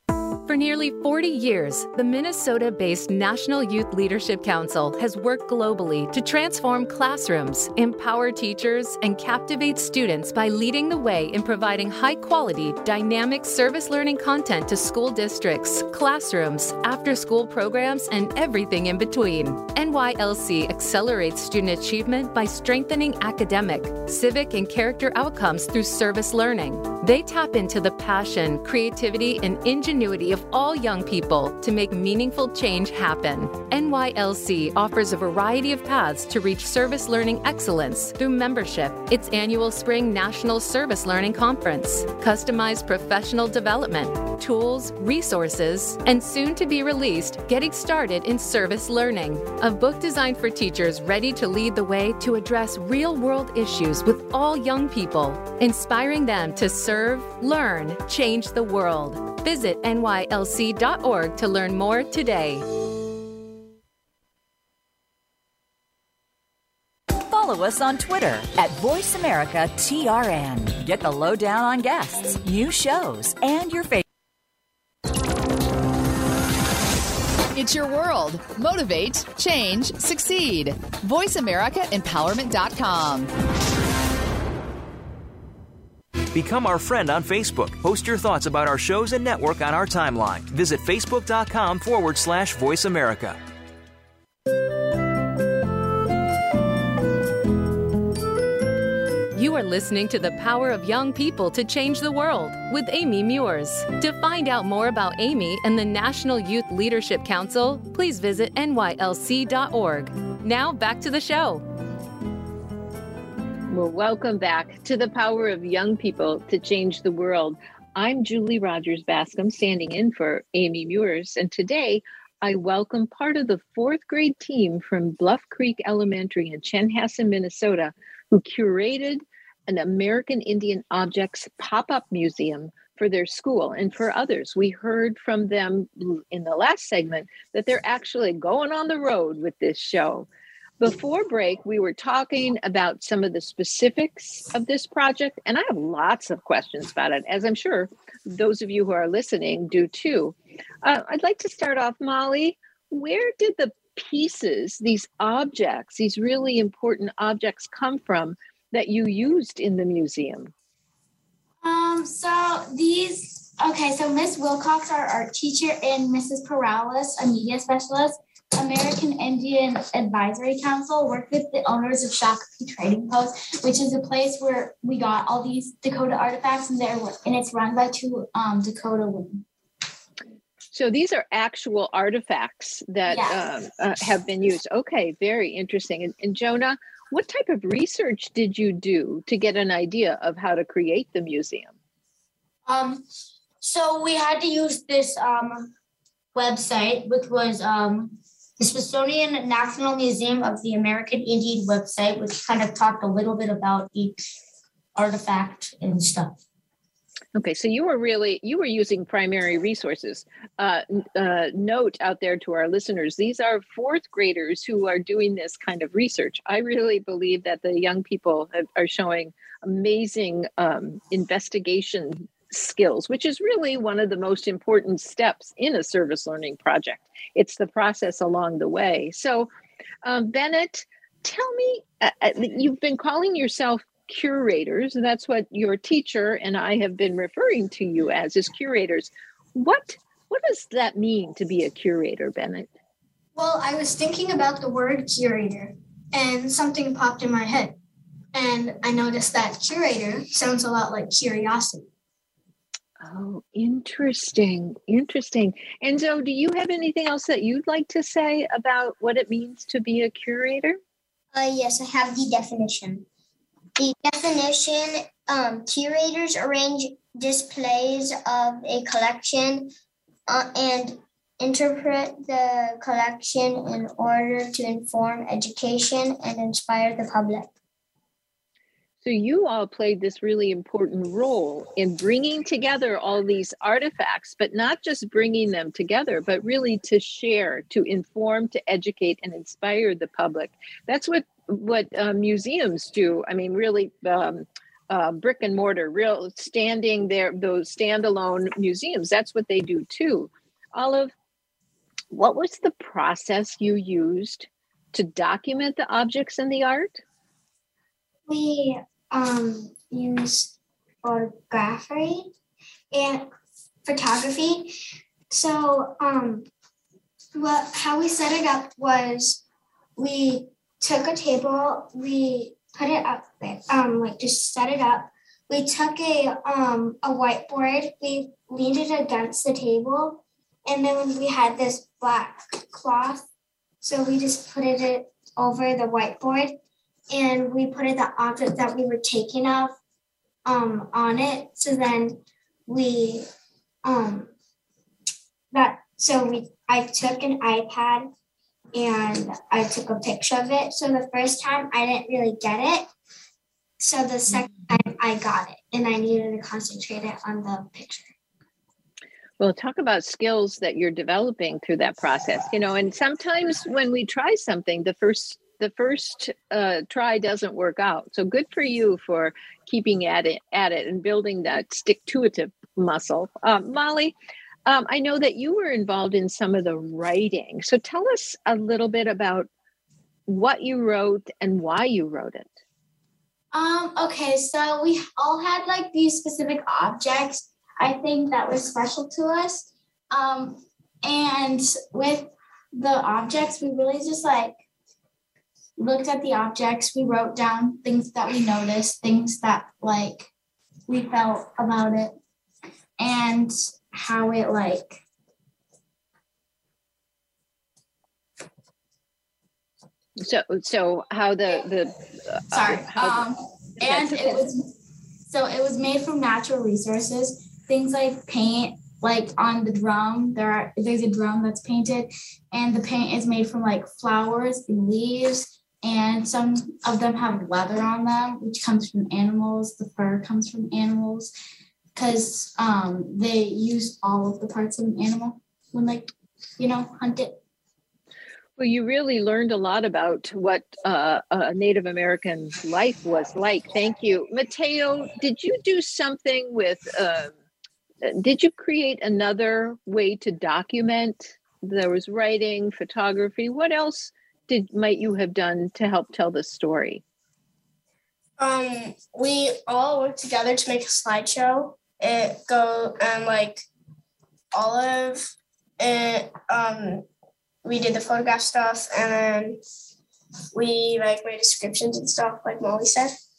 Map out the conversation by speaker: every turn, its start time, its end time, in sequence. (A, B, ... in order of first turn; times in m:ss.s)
0:00.4-1:02.6 A
1:07.2-1:14.0 B
1:17.5-1:23.3 C
1:26.3-1:33.4 D
1:39.3-1:51.6 A
1:53.7-2:20.3 E
2:20.8-2:40.5 E
2:41.6-2:59.4 F
3:00.7-3:11.7 E
3:03.1-3:03.4 F
3:12.6-3:13.0 G
3:13.6-3:15.7 G
3:16.3-3:24.2 G
3:24.9-3:26.4 G
3:27.3-3:49.5 E
3:50.0-4:02.7 E
4:03.3-4:07.8 H
4:08.3-4:11.9 H
4:13.0-4:20.8 E
4:21.3-4:23.0 I
4:23.8-4:29.7 I
4:30.3-4:37.5 I
4:39.0-5:01.1 E
5:02.1-5:07.0 E
5:08.3-5:12.3 J
5:12.9-5:13.3 J
5:13.8-5:14.7 J
5:15.3-5:16.5 J
5:17.3-5:19.4 J
5:20.0-5:33.3 J
5:33.8-5:39.8 J
5:40.4-5:43.3 J
5:43.8-5:44.3 J
5:45.5-5:48.1 J
5:48.7-5:52.9 J
5:53.8-5:58.2 J
5:59.4-6:14.1 E
6:14.6-6:19.5 E
6:20.3-6:22.5 E
6:23.5-6:34.6 F
6:35.8-6:40.3 F
6:40.9-6:42.2 F
6:43.0-6:45.0 F
6:50.2-6:53.2 E
6:52.5-6:54.7 F
6:53.8-6:54.5 E
6:55.2-7:11.3 F
7:11.9-7:17.4 F
7:18.6-7:27.3 E
7:28.0-7:37.0 E
7:38.4-7:43.6 K
7:44.5-7:47.0 K
7:47.6-7:49.6 K
7:50.5-7:53.2 K